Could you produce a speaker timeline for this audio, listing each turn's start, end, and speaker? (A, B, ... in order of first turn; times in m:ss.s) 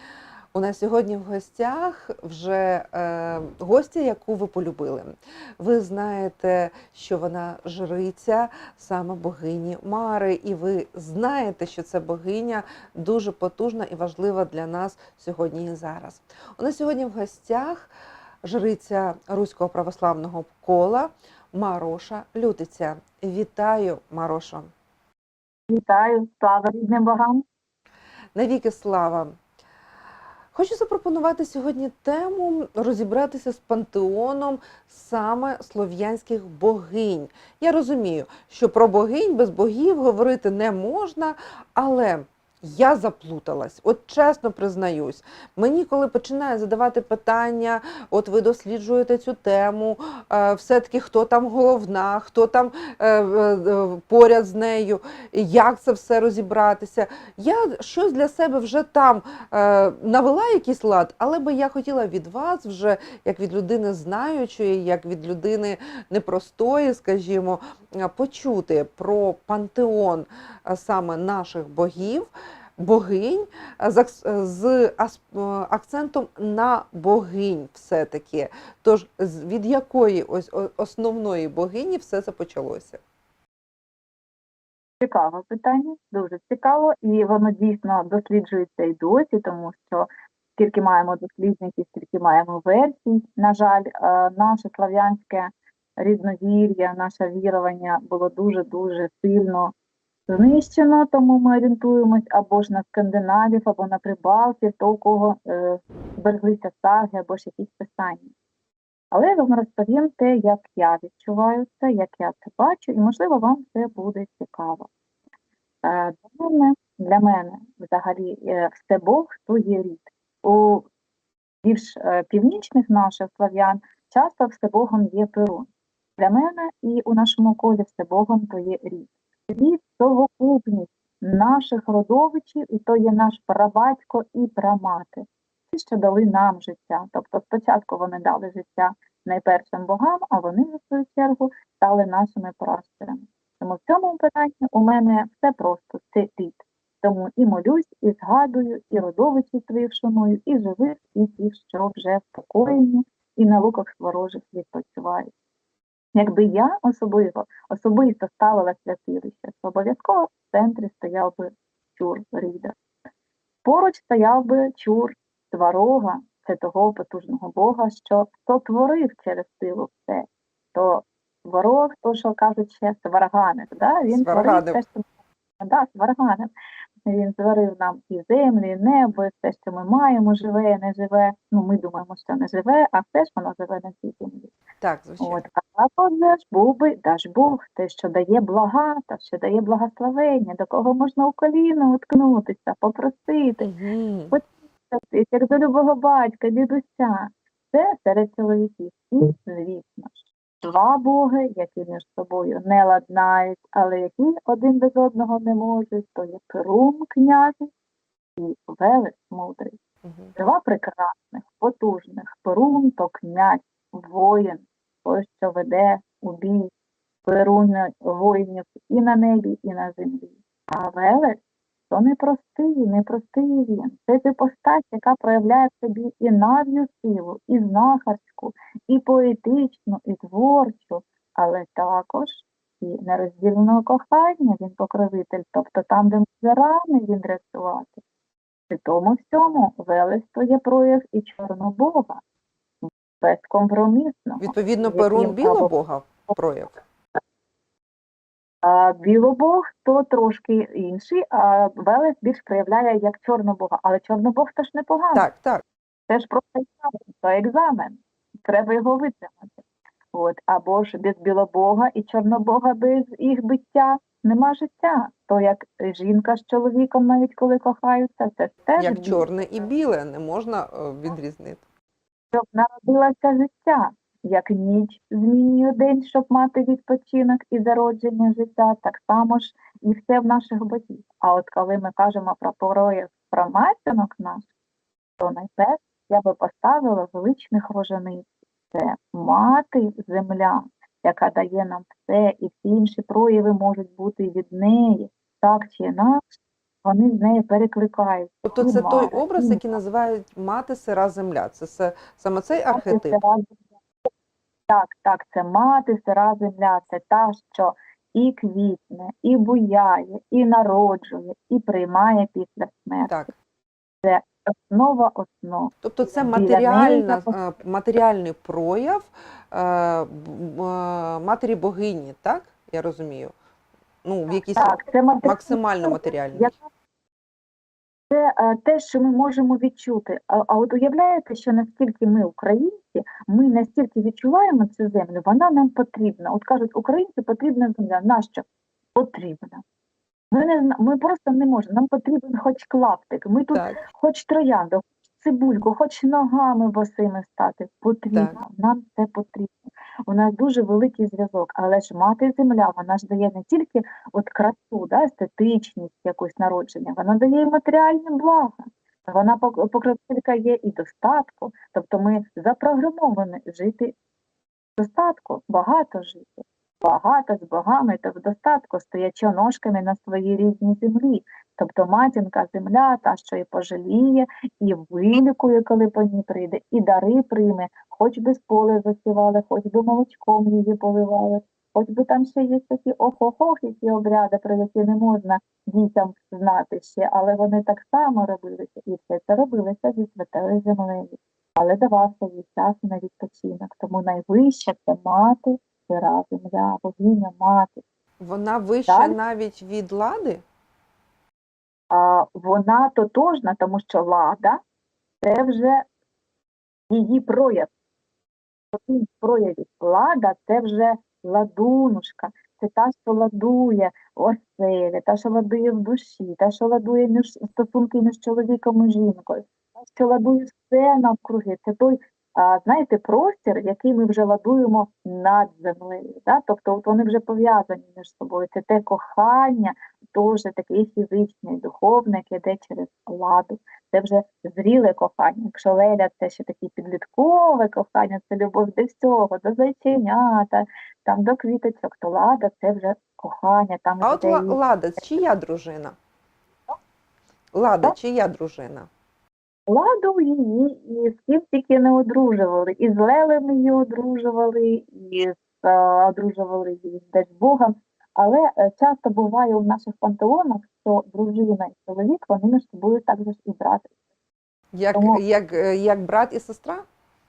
0:00.5-0:17.9 A
0:18.4-0:24.7 A
0:25.7-0:27.4 B
0:28.4-0:29.3 A
0:30.5-1:23.0 A
1:25.0-1:39.7 B
1:40.3-1:48.3 B
1:49.1-1:54.9 B
1:55.8-2:00.9 B
2:01.6-2:35.3 B
2:36.2-2:42.8 B
2:43.6-2:55.0 B
2:54.1-2:54.8 A
2:55.6-2:56.5 B
2:57.1-3:04.5 B
3:04.8-3:05.4 A
3:05.2-3:13.7 B
3:13.6-3:14.3 A
3:14.3-3:27.7 B
3:28.4-3:29.8 B
3:30.0-3:30.3 A
3:30.4-3:36.7 B
3:37.2-3:41.4 B
3:41.9-3:58.0 B
3:58.7-4:02.2 B
4:02.8-4:05.7 B
4:04.4-4:06.8 A
4:08.6-4:15.3 B
4:15.1-4:15.6 A
4:16.1-4:19.6 B
4:20.1-4:29.3 B
4:28.8-4:31.6 A
4:32.3-4:44.5 B
4:45.2-4:56.2 B
4:56.8-4:59.6 B
4:58.4-5:03.2 A
5:02.7-5:03.6 B
5:04.7-5:13.3 B
5:13.1-5:13.3 A
5:14.0-5:17.3 B
5:15.8-5:23.3 A
5:24.0-5:26.5 A
5:24.6-5:26.6 B
5:28.1-5:39.6 B
5:40.3-5:49.5 B
5:43.5-5:43.8 A
5:48.1-5:48.4 A
5:50.1-6:04.0 B
6:04.8-6:37.8 B
6:38.2-6:40.4 A
6:38.9-6:39.2 B
6:41.9-6:44.6 B
6:45.2-6:45.8 B
6:46.9-6:47.7 B
6:48.7-7:24.6 B
7:24.0-7:26.0 A
7:27.5-7:28.9 A
7:29.7-7:43.9 B
7:44.7-7:46.8 A
7:44.9-7:45.2 B